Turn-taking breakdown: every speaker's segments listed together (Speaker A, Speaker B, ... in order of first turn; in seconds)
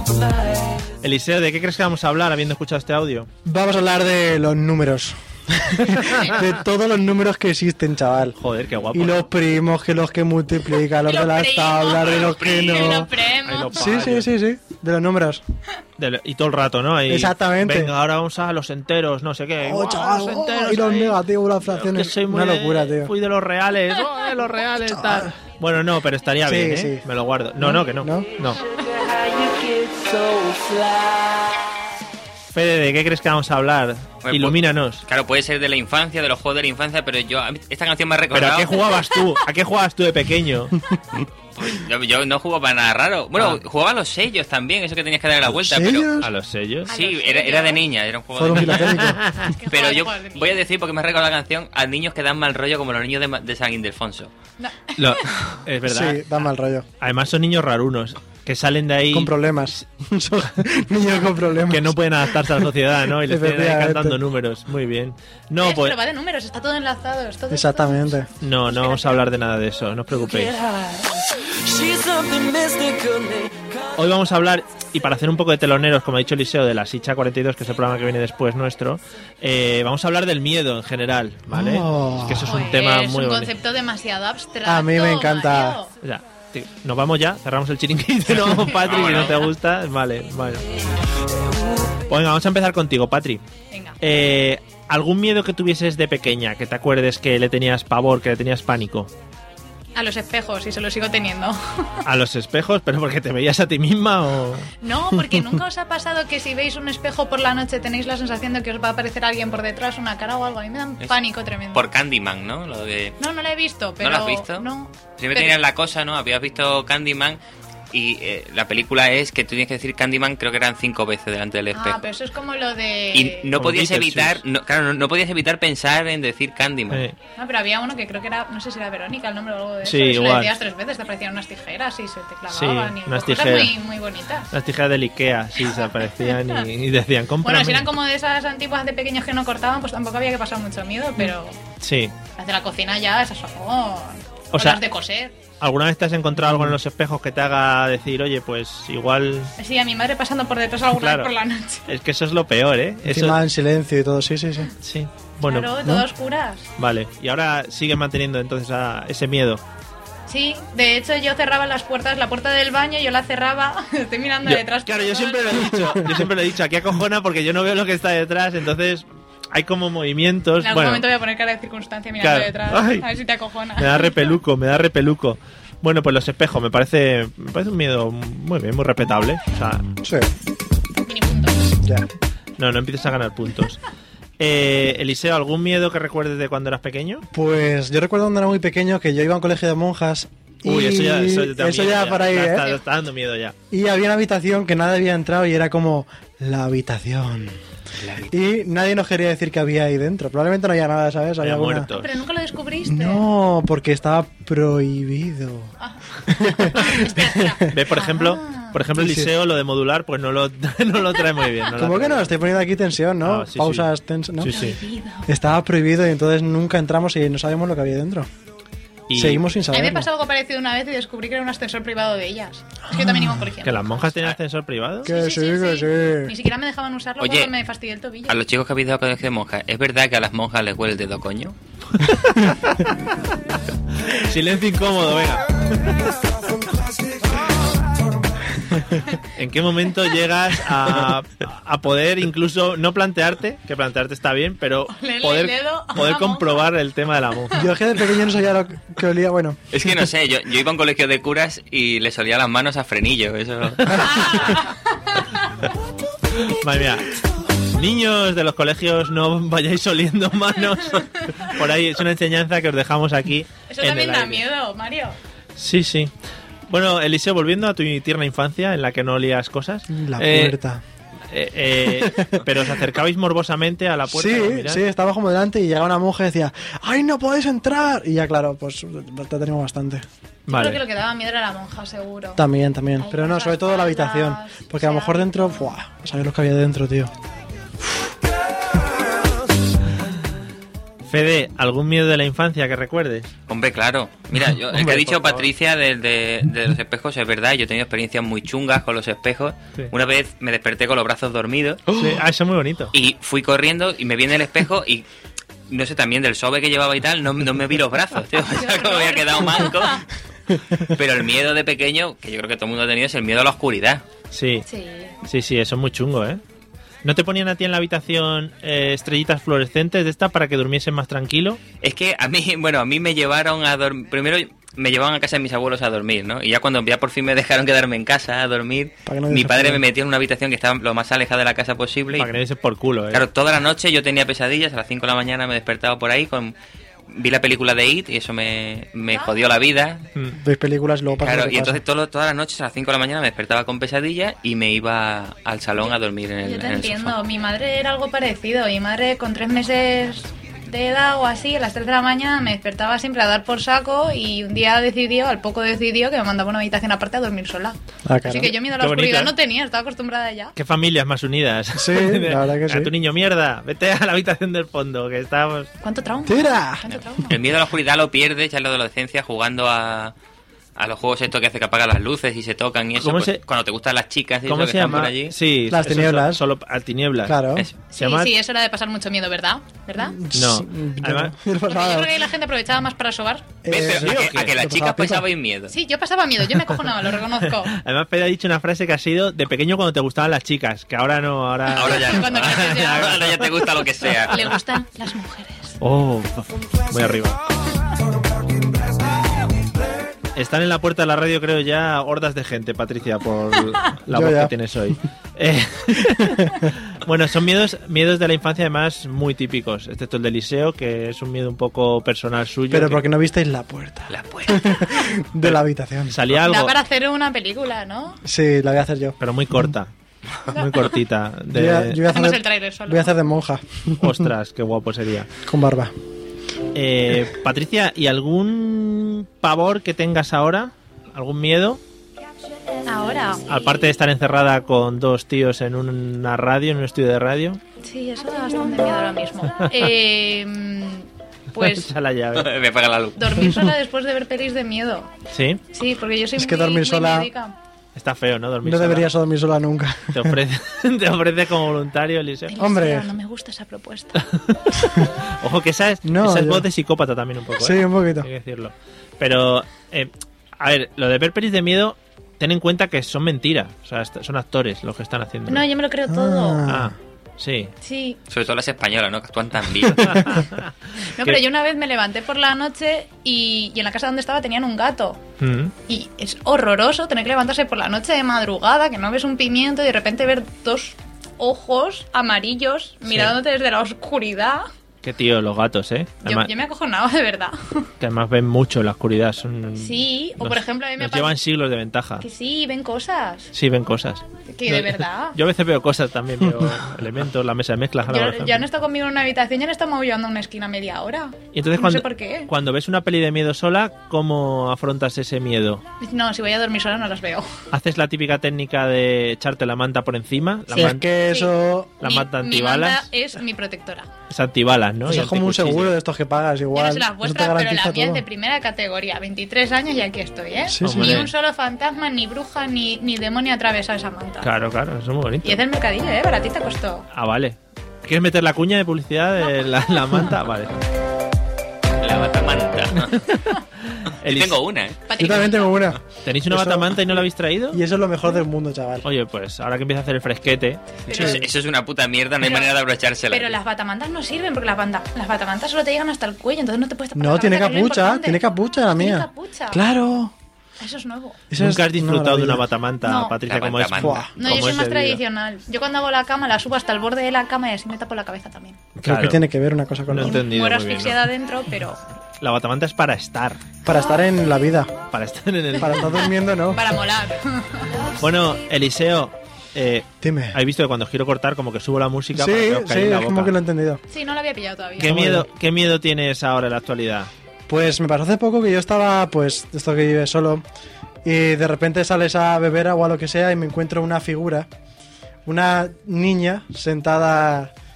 Speaker A: 1.0-3.3, 8.4-9.3, 13.3-14.3, 16.0-28.6, 32.5-35.0, 38.3-40.7, 46.2-46.9, 48.8-49.5, 55.0-56.2, 57.0-59.3, 61.7-66.0, 68.4-70.6, 74.0-83.5, 86.0-90.7, 92.1-93.4, 94.0-99.1, 102.0-104.7, 123.5-124.4, 126.9-127.2, 129.8-130.6, 132.5-133.8, 134.5-137.9, 141.8-142.1, 144.5-144.8, 145.6-149.5, 150.9-151.3, 151.9-153.4, 154.8-155.8, 156.8-159.6, 164.4-171.1, 172.2-173.1, 173.8-179.8, 182.6-183.8, 184.4-187.2, 190.6-193.6, 201.4-202.2, 207.7-212.3, 213.2-213.9, 214.4-214.8, 219.1-219.4, 223.6-225.1, 231.9-232.9, 234.0-236.0, 239.3-247.7, 256.4-264.4, 265.6-266.1, 266.7-270.6, 271.3-274.8, 280.5-280.8, 291.0-293.3, 294.6-295.5, 301.9-302.9, 314.3-314.6, 315.2-316.4, 317.0-321.6, 332.1-333.3, 358.7-359.3, 360.6-365.7, 373.0-373.4, 374.5-377.4, 377.9-378.3, 380.3-381.3, 383.8-384.6, 387.6-393.7, 395.8-397.4, 400.4-413.0, 415.4-416.8, 419.2-419.9, 420.5-422.1, 424.0-425.3, 426.7-431.8, 433.5-437.6, 441.6-442.5, 445.3-445.6, 447.9-449.1, 450.1-452.6, 454.1-465.7, 466.6-467.7, 470.0-471.4, 475.4-475.7, 483.1-483.3, 485.0-486.5, 488.0-492.2, 493.5-498.6, 501.5-505.8, 507.7-511.1, 512.0-513.1, 514.3-515.9, 520.8-521.3, 524.4-525.6, 527.1-530.7, 533.1-534.6, 536.2-537.8, 539.0-541.0, 551.5-555.2, 559.0-559.4, 560.1-561.2, 562.4-563.6, 565.1-566.3, 568.2-573.5, 575.0-577.3
Speaker B: 3.4-8.4, 8.9-13.1, 13.7-15.4, 17.1-17.9, 19.6-23.1, 24.9-25.3, 26.4-27.0, 27.6-28.3, 45.5-46.3, 48.3-49.2, 55.8-56.9, 59.1-64.2, 67.5-68.3, 81.5-82.6, 84.6-85.8, 146.4-146.7, 153.1-154.7, 180.0-180.3, 181.8-182.1, 187.3-192.8, 193.7-197.6, 198.2-201.9, 202.8-205.7, 206.3-207.7, 208.9-209.3, 211.7-214.6, 215.2-218.3, 219.1-220.1, 222.9-223.3, 225.0-226.3, 247.5-249.9, 269.9-270.8, 271.9-272.5, 274.1-280.0, 282.4-287.1, 329.1-329.8, 340.3-341.8, 358.1-358.6, 361.7-362.9, 366.2-366.9, 375.7-376.4, 377.2-377.7, 380.0-382.2, 383.6-385.3, 404.1-404.5, 406.0-406.5, 412.7-416.2, 418.2-419.7, 421.5-424.3, 425.4-425.9, 446.4-447.3, 448.6-450.4, 452.6-453.1, 456.0-456.6, 457.6-458.3, 466.1-466.9, 496.5-496.8, 510.7-512.0, 515.0-518.2, 520.6-521.3, 535.2-539.0, 541.1-541.4, 547.1-550.3, 551.5-552.6, 554.0-554.3, 559.0-560.4, 563.8-565.0, 565.8-566.9, 570.2-570.6, 572.3-574.0, 575.0-575.5, 577.7-580.6, 581.2-584.7, 585.4-587.7
Speaker C: 6.0-6.4, 11.0-13.8, 46.9-47.8, 49.4-50.6, 54.6-55.6, 65.6-69.3, 82.5-85.9, 93.7-94.0, 100.0-102.0, 104.8-111.9, 113.2-115.5, 121.7-123.5, 127.3-134.5, 135.6-136.6, 137.4-141.6, 142.4-145.4, 149.6-151.8, 155.4-156.7, 160.3-166.0, 170.6-174.3, 181.0-181.7, 201.9-203.2, 205.8-208.8, 214.5-215.3, 219.7-223.9, 225.0-228.4, 244.9-246.7, 253.9-255.3, 260.9-261.3, 263.7-265.1, 280.5-282.4, 283.0-285.6, 308.5-310.0, 314.6-315.1, 339.1-339.4, 346.4-360.5, 365.8-367.4, 377.9-380.2, 381.6-383.6, 385.7-387.8, 391.8-393.2, 394.3-395.8, 416.4-418.2, 420.5-420.9, 422.1-423.1, 432.8-433.8, 437.8-441.9, 443.1-445.1, 445.7-447.5, 452.5-454.2, 465.5-466.6, 467.8-468.2, 471.0-475.2, 475.9-484.7, 486.2-487.9, 489.8-491.4, 492.2-493.5, 494.5-495.4, 498.1-502.5, 506.0-507.5, 510.7-514.1, 516.7-524.5, 525.4-527.1, 535.1-535.9, 541.1-541.4, 542.4-542.7, 543.3-549.8, 550.8-551.4, 553.0-553.4, 554.4-558.8, 560.2-562.0, 566.7-568.1, 574.1-575.1
Speaker D: 12.0-12.9, 34.2-38.9, 41.2-46.2, 46.9-49.0, 49.7-54.3, 88.7-89.4, 111.7-113.2, 114.0-114.7, 115.2-117.4, 117.9-122.0, 123.1-127.0, 198.0-198.3, 227.2-227.5, 228.3-231.6, 249.7-254.5, 293.5-302.1, 302.9-305.0, 305.7-310.0, 310.8-314.0, 321.8-332.3, 333.1-336.5, 337.1-340.1, 341.2-347.1, 367.3-370.1, 370.8-375.3, 383.7-385.7, 391.7-394.5, 414.1-414.9, 442.3-443.5, 468.3-470.4, 532.0-533.2, 534.2-535.0, 541.1-543.5, 553.4-554.3
Speaker E: 28.5-31.5, 70.2-73.9, 236.5-237.9, 398.2-399.1